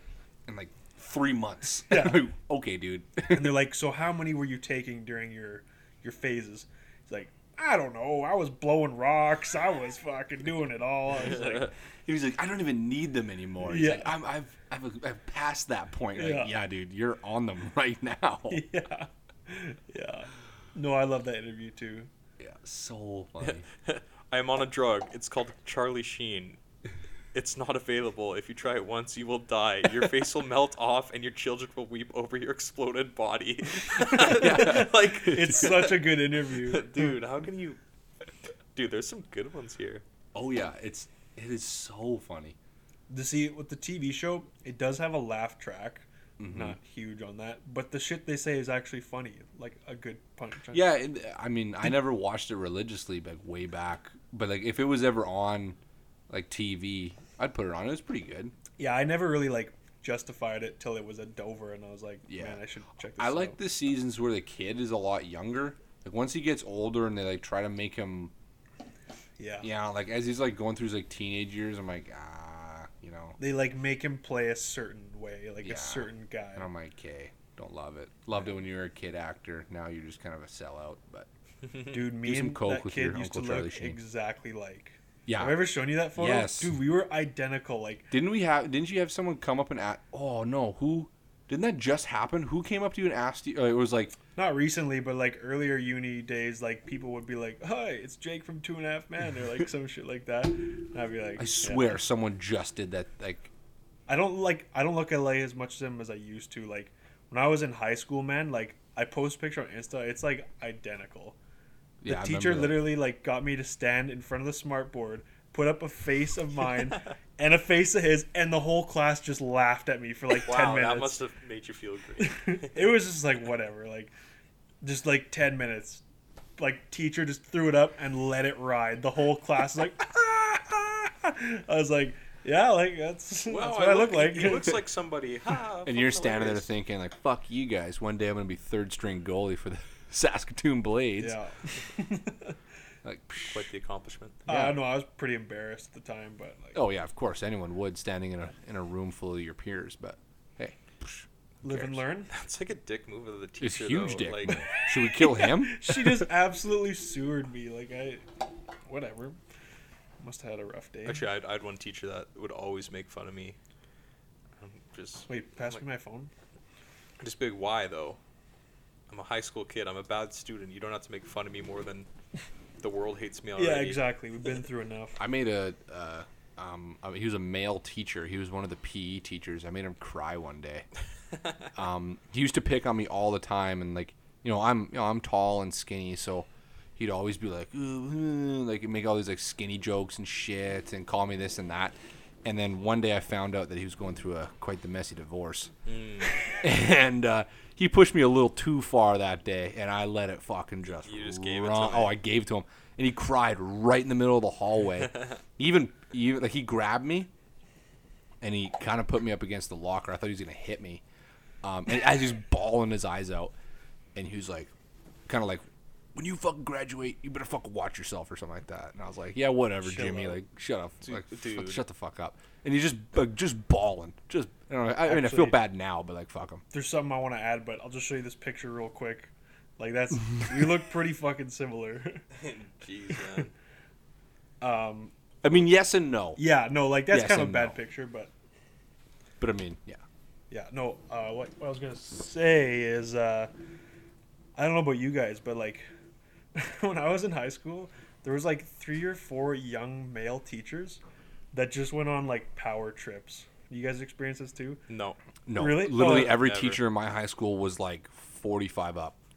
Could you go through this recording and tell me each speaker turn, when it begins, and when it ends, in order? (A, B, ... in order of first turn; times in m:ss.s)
0:00.5-0:03.6 A
0:01.9-0:02.2 B
0:03.3-0:11.7 B
0:12.0-0:18.6 A
0:13.6-0:14.1 B
0:16.1-0:16.5 B
0:18.5-0:22.1 B
0:22.4-0:23.6 A
0:23.4-0:26.6 C
0:27.3-0:36.1 C
0:34.2-0:35.7 A
0:34.2-0:37.1 B
0:36.6-0:37.8 C
0:38.7-0:40.0 C
0:40.3-0:42.6 A
0:43.1-0:50.9 B
0:46.4-0:46.8 A
0:50.7-0:55.8 A
0:56.3-0:58.5 A
0:58.8-1:03.6 B
1:02.3-1:02.6 A
1:03.2-1:08.3 A
1:09.4-1:09.7 B
1:09.6-1:13.4 A
1:13.4-1:16.7 B
1:15.6-1:21.3 A
1:21.9-1:28.1 B
1:22.1-1:24.0 A
1:25.3-1:26.8 A
1:28.1-1:34.2 A
1:34.3-1:41.9 B
1:41.4-1:43.5 A
1:44.1-1:51.4 B
1:52.0-1:52.9 A
1:52.0-2:01.2 B
2:00.4-2:02.9 C
2:02.2-2:04.1 B
2:04.8-2:06.0 B
2:06.6-2:14.8 B
2:13.4-2:16.7 C
2:15.8-2:21.4 A
2:21.2-2:22.5 B
2:23.0-2:23.7 A
2:23.5-2:24.4 C
2:24.5-2:24.8 A
2:24.5-2:26.8 B
2:26.7-2:32.0 A
2:31.6-2:32.3 B
2:32.3-2:34.6 C
2:33.6-2:36.1 A
2:34.7-2:38.3 B
2:38.8-2:39.4 B
2:40.2-2:41.2 B
2:41.0-2:43.6 C
2:44.6-2:45.8 C
2:45.3-2:46.3 B
2:47.2-2:48.2 C
2:49.1-2:52.1 C
2:52.8-2:54.0 C
2:53.6-2:55.2 B
2:55.2-3:00.8 A
3:01.7-3:15.7 A
3:15.8-3:16.4 C
3:16.5-3:27.3 A
3:21.0-3:22.2 C
3:28.4-3:31.0 A
3:31.6-3:33.5 A
3:34.1-3:34.7 A
3:35.3-3:35.6 A
3:36.1-3:46.6 A
3:39.8-3:40.4 B
3:41.0-3:41.8 C
3:45.0-3:45.6 B
3:46.7-3:52.2 B
3:52.3-3:53.5 C
3:54.6-3:55.1 B
3:55.4-3:56.4 A
3:56.4-3:58.3 B
3:57.1-3:57.8 A
3:59.4-4:00.0 A
4:00.5-4:03.5 B
4:04.6-4:05.9 B
4:06.5-4:11.0 B
4:11.5-4:14.8 B
4:14.9-4:15.2 C
4:15.4-4:19.2 A
4:15.5-4:16.4 B
4:15.9-4:16.8 C